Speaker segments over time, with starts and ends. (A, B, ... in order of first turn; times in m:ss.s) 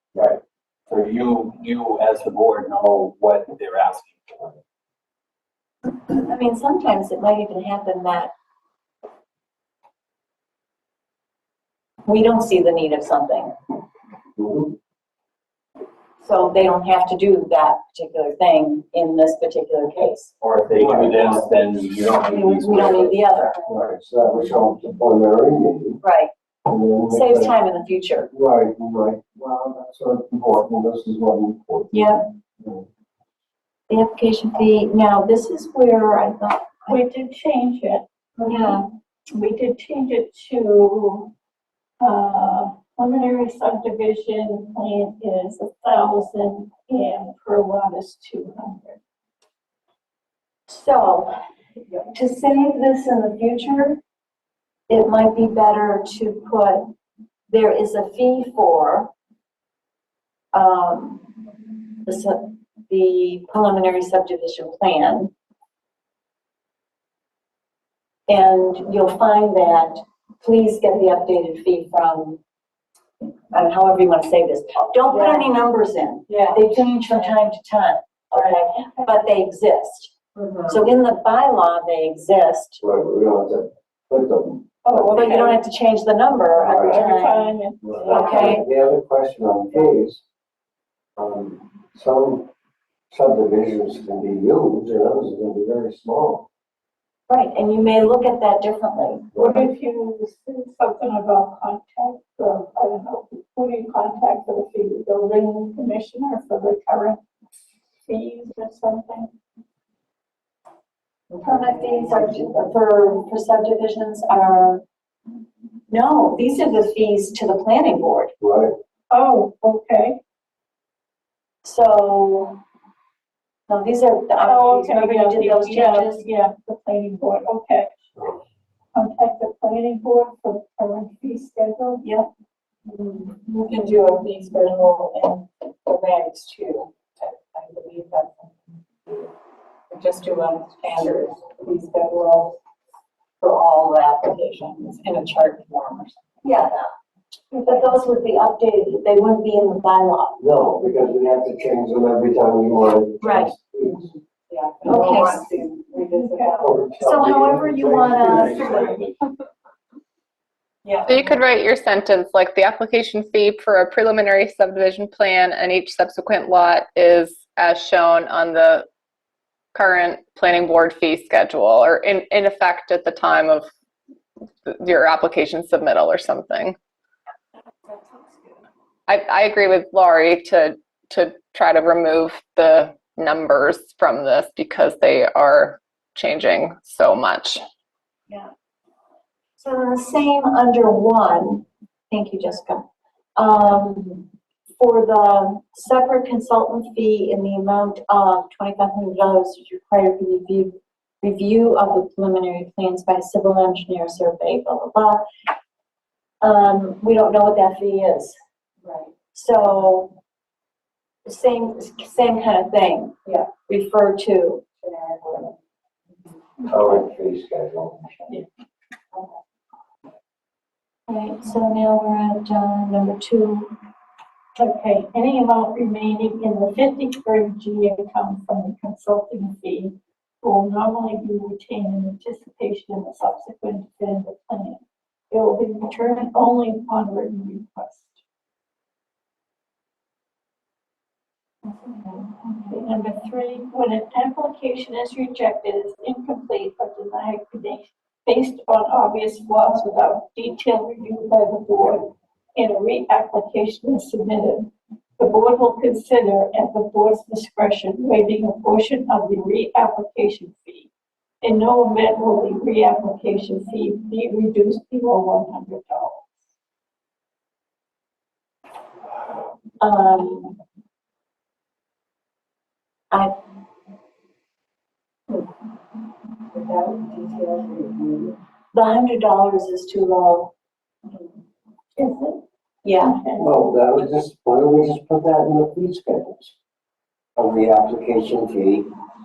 0:00.9-0:04.6 A
0:06.1-0:08.3 B
0:12.0-0:13.5 B
0:14.4-0:14.7 C
0:16.2-0:20.3 B
0:20.4-0:23.2 A
0:20.7-0:21.5 C
0:22.3-0:23.6 B
0:23.6-0:26.0 C
0:26.0-0:26.3 B
0:26.7-0:27.5 C
0:27.1-0:28.3 B
0:28.3-0:32.8 C
0:31.9-0:32.2 B
0:33.9-0:37.0 B
0:36.9-0:38.8 D
0:38.4-0:38.9 B
0:39.3-0:41.3 D
0:42.0-0:49.0 D
0:50.7-0:51.3 B
0:52.1-0:54.0 B
0:54.9-0:56.8 B
0:57.5-0:59.1 B
1:00.5-1:01.3 B
1:02.0-1:05.3 B
1:08.3-1:12.4 B
1:13.5-1:20.1 B
1:15.1-1:15.5 E
1:16.3-1:16.7 E
1:20.4-1:20.8 E
1:20.6-1:22.8 B
1:22.8-1:25.3 C
1:24.8-1:25.6 D
1:25.1-1:27.5 B
1:26.6-1:27.0 C
1:26.7-1:28.6 D
1:27.8-1:30.2 C
1:28.1-1:28.6 B
1:31.2-1:32.5 C
1:33.1-1:36.5 C
1:37.3-1:39.3 B
1:39.3-1:39.7 C
1:39.3-1:47.2 D
1:48.0-1:49.3 D
1:51.3-1:52.5 E
1:51.4-1:54.8 B
1:55.9-1:58.3 B
1:58.4-1:58.7 C
1:59.1-2:00.2 D
2:01.6-2:02.6 B
2:03.7-2:06.3 B
2:04.4-2:07.9 D
2:08.9-2:12.2 D
2:12.9-2:19.3 E
2:19.9-2:22.6 E
2:23.4-2:26.3 E
2:26.4-2:26.9 B
2:27.5-2:27.9 D
2:27.6-2:30.4 B
2:30.4-2:34.1 C
2:33.2-2:33.5 B
2:34.5-2:36.9 E
2:34.8-2:35.5 B
2:36.1-2:36.7 D
2:36.6-2:38.9 C
2:37.0-2:39.0 B
2:38.3-2:39.1 A
2:40.8-2:41.2 E
2:41.0-2:48.9 F
2:49.7-2:53.7 F
2:54.7-2:56.8 F
2:57.9-2:58.6 D
2:59.1-3:07.6 F
3:09.6-3:12.8 B
3:13.4-3:14.2 B
3:14.8-3:25.2 B
3:26.4-3:28.4 B
3:28.8-3:29.1 E
3:29.3-3:30.1 B
3:31.2-3:34.6 B
3:33.2-3:33.5 E
3:34.8-3:35.5 E
3:36.6-3:38.2 C
3:41.1-3:43.7 B
3:44.5-3:58.2 D
4:02.1-4:20.9 D
4:21.4-4:26.3 D
4:29.8-4:30.6 B
4:36.5-4:38.3 E
4:38.7-4:40.5 B
4:42.0-4:42.4 D
4:42.8-4:43.2 B
4:43.0-4:43.5 D
4:43.4-4:46.6 C
4:47.4-4:48.9 C